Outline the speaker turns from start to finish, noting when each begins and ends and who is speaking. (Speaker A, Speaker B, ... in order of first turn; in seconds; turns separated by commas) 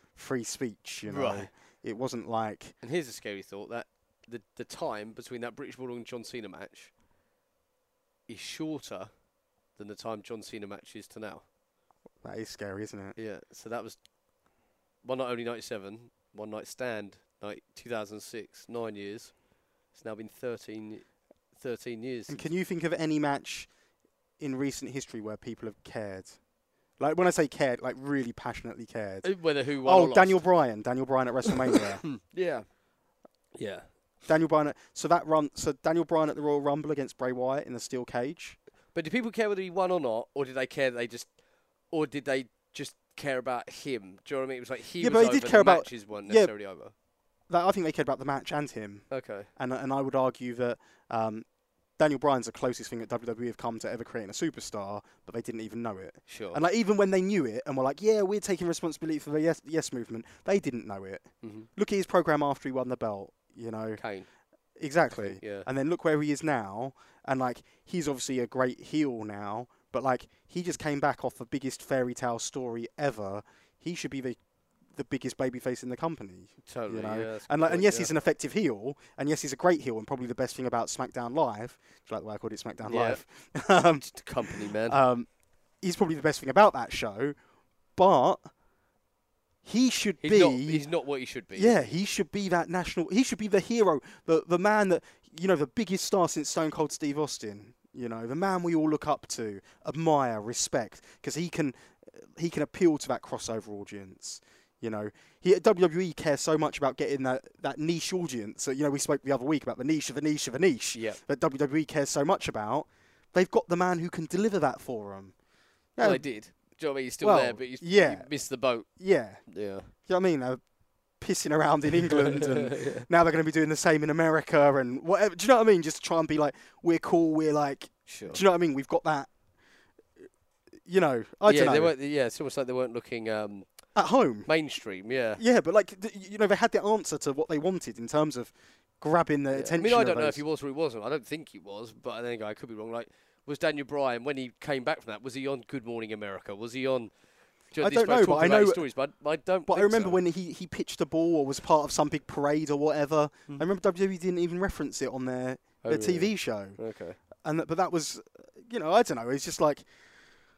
Speaker A: 0.1-2.8, Speaker B: 1.1-1.5, Speaker B: 2.8-6.9, Speaker B: 8.3-9.1, Speaker B: 9.7-11.5, Speaker A: 12.2-13.2, Speaker B: 13.2-14.0, Speaker B: 15.0-22.5, Speaker A: 22.3-23.7, Speaker A: 24.4-26.4, Speaker A: 27.0-32.1, Speaker B: 29.2-30.4, Speaker B: 32.0-32.7, Speaker B: 33.5-33.9, Speaker A: 34.3-38.6, Speaker B: 38.9-41.4, Speaker B: 41.9-46.9, Speaker A: 45.0-46.5, Speaker A: 47.5-51.5, Speaker B: 49.1-49.5, Speaker A: 52.0-64.0, Speaker B: 56.3-56.6, Speaker B: 61.4-61.7, Speaker B: 64.0-64.3, Speaker A: 64.8-74.4, Speaker B: 65.1-65.7, Speaker A: 74.9-85.3, Speaker B: 76.7-78.1, Speaker B: 82.8-83.2, Speaker B: 84.0-85.0, Speaker A: 85.8-87.4, Speaker A: 88.0-88.5, Speaker A: 89.6-90.8, Speaker B: 90.2-91.9, Speaker A: 91.5-115.3, Speaker B: 110.9-111.2, Speaker A: 116.0-116.3, Speaker B: 116.0-118.9, Speaker A: 117.2-118.3, Speaker A: 118.9-119.4, Speaker B: 119.5-119.9, Speaker A: 120.0-120.6, Speaker A: 121.2-129.3, Speaker B: 122.1-123.1, Speaker B: 128.1-128.4, Speaker A: 130.8-131.9, Speaker B: 131.5-133.7, Speaker A: 133.9-134.5, Speaker B: 134.5-135.4, Speaker A: 135.4-140.4, Speaker B: 139.5-150.2, Speaker A: 147.8-148.9, Speaker A: 149.7-156.8, Speaker B: 155.8-157.2, Speaker A: 157.4-159.9